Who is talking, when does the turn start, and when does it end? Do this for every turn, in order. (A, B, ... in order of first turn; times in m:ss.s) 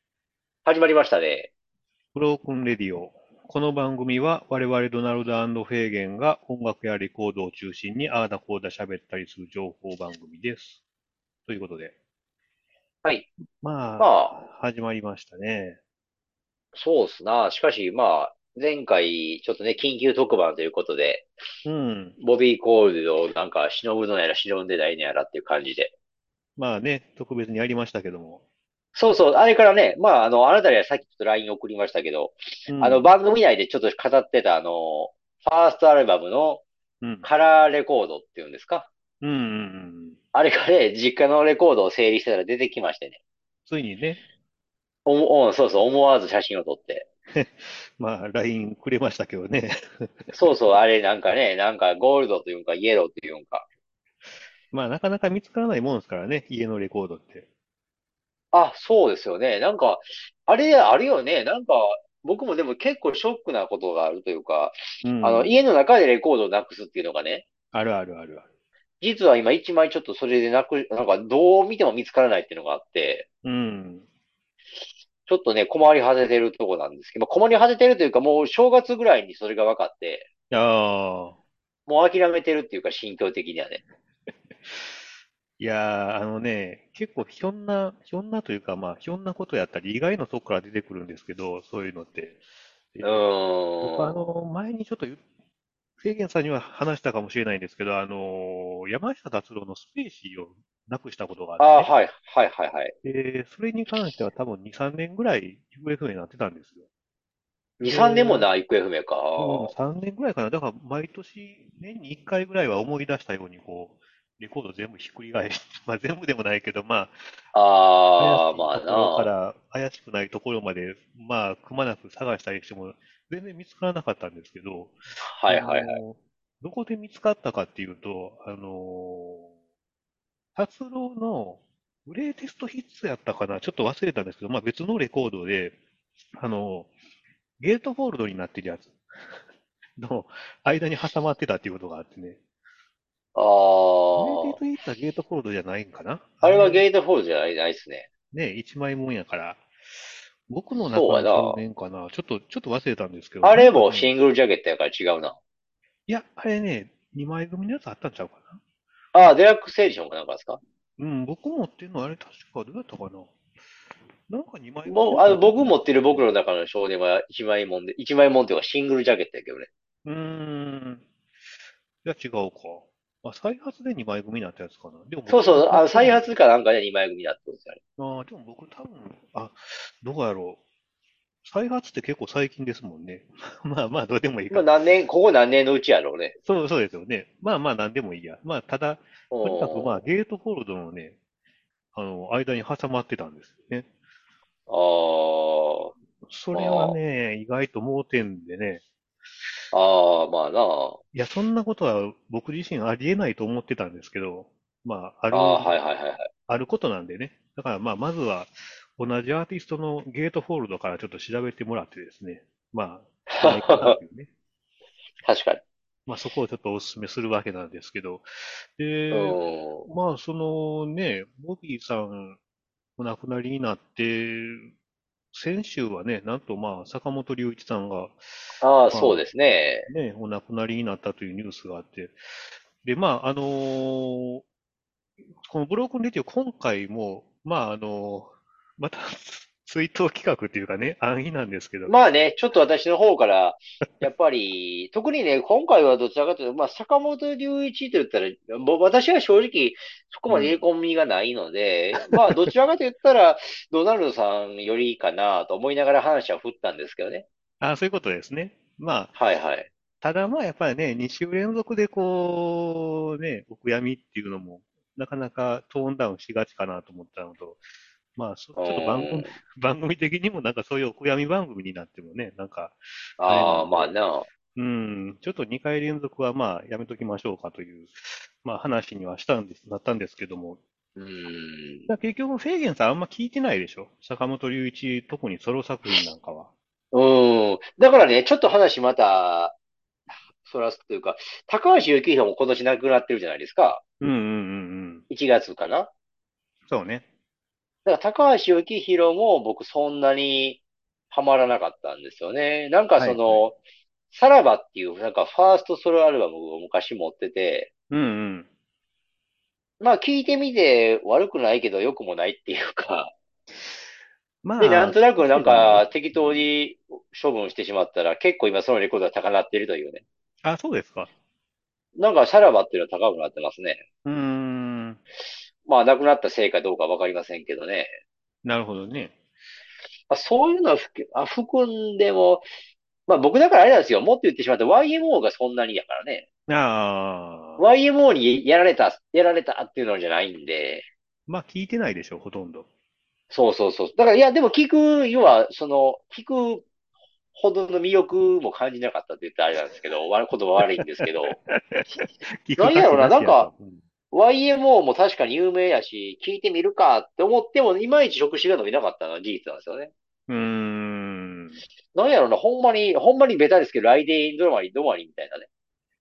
0:00.7-0:01.5 A
0:02.1-0:10.8 B
0:11.5-0:11.9 B
0:13.6-0:15.8 B
0:14.0-0:14.3 A
0:16.7-0:21.3 A
0:21.6-0:22.2 B
0:22.2-0:25.9 A
0:26.6-0:28.4 B
0:29.0-0:36.6 A
0:32.7-0:33.1 B
0:37.0-0:37.3 B
0:37.2-0:38.9 A
0:39.2-0:40.2 B
0:40.3-0:43.2 A
0:43.7-0:44.2 B
0:45.1-0:47.1 A
0:47.3-0:50.3 B
0:50.3-0:53.7 A
0:54.7-0:57.5 B
0:58.5-1:07.4 A
1:05.0-1:05.6 B
1:07.7-1:08.5 B
1:09.0-1:13.3 A
1:13.4-1:14.1 B
1:15.3-1:20.3 A
1:20.5-1:21.4 B
1:21.9-1:23.8 A
1:24.7-1:24.9 B
1:25.6-1:32.4 B
1:32.9-1:33.3 B
1:33.0-1:34.3 A
1:33.8-1:35.2 B
1:36.0-1:41.9 B
1:41.6-1:42.9 A
1:43.0-1:46.8 B
1:47.8-1:49.7 A
1:47.8-1:48.5 B
1:49.4-1:57.3 B
1:57.5-1:59.3 A
1:58.2-2:09.5 B
2:05.2-2:06.0 A
2:10.6-2:15.8 B
2:16.4-2:16.9 B
2:17.6-2:19.0 B
2:20.0-2:22.4 B
2:23.4-2:24.6 A
2:24.1-2:26.8 B
2:26.4-2:28.1 A
2:28.3-2:29.6 B
2:30.5-2:34.2 B
2:30.8-2:31.6 A
2:33.4-2:35.4 A
2:36.1-2:38.6 B
2:39.1-2:40.6 A
2:41.0-2:43.3 B
2:44.3-2:46.3 B
2:44.9-2:49.7 A
2:50.0-2:51.0 B
2:52.0-2:56.3 B
2:55.3-2:57.8 A
2:58.0-3:00.6 B
3:01.4-3:04.7 B
3:04.5-3:06.4 A
3:06.4-3:11.2 B
3:09.3-3:10.0 A
3:11.9-3:13.9 B
3:14.7-3:15.9 A
3:16.2-3:18.8 B
3:16.5-3:17.0 A
3:19.7-3:21.0 A
3:21.1-3:25.8 B
3:25.3-3:26.3 A
3:26.5-3:34.3 B
3:33.3-3:34.0 A
3:35.2-3:35.6 A
3:36.1-3:42.4 B
3:39.1-3:39.9 A
3:43.0-3:44.7 B
3:45.3-3:49.2 B
3:48.6-3:49.9 A
3:49.9-3:54.4 B
3:55.4-4:02.0 B
4:01.9-4:17.3 A
4:10.3-4:10.6 B
4:12.0-4:12.5 B
4:17.6-4:19.1 B
4:19.2-4:19.7 A
4:20.0-4:27.6 B
4:28.2-4:34.0 B
4:28.6-4:29.3 A
4:33.2-4:34.3 A
4:34.6-4:40.6 B
4:41.0-4:41.9 A
4:41.9-4:46.5 B
4:46.9-4:49.6 A
4:50.4-4:53.8 A
4:54.0-4:55.0 B
4:55.1-4:55.9 A
4:56.7-4:57.0 B
4:57.8-5:03.6 A
5:03.0-5:03.4 B
5:04.1-5:07.7 A
5:07.9-5:08.5 B
5:09.8-5:13.1 A
5:14.4-5:16.5 B
5:14.6-5:20.0 A
5:20.4-5:21.1 B
5:22.0-5:23.8 A
5:24.0-5:25.0 B
5:25.6-5:27.9 A
5:28.4-5:29.1 B
5:30.1-5:32.5 A
5:33.1-5:36.2 A
5:36.5-5:37.6 B
5:37.6-5:40.9 A
5:41.3-5:42.7 B
5:43.3-5:46.7 A
5:47.4-5:51.4 A
5:50.7-5:51.8 B
5:52.4-5:53.8 B
5:52.6-5:53.5 A
5:54.1-5:59.9 A
6:00.3-6:01.6 B
6:01.9-6:05.5 A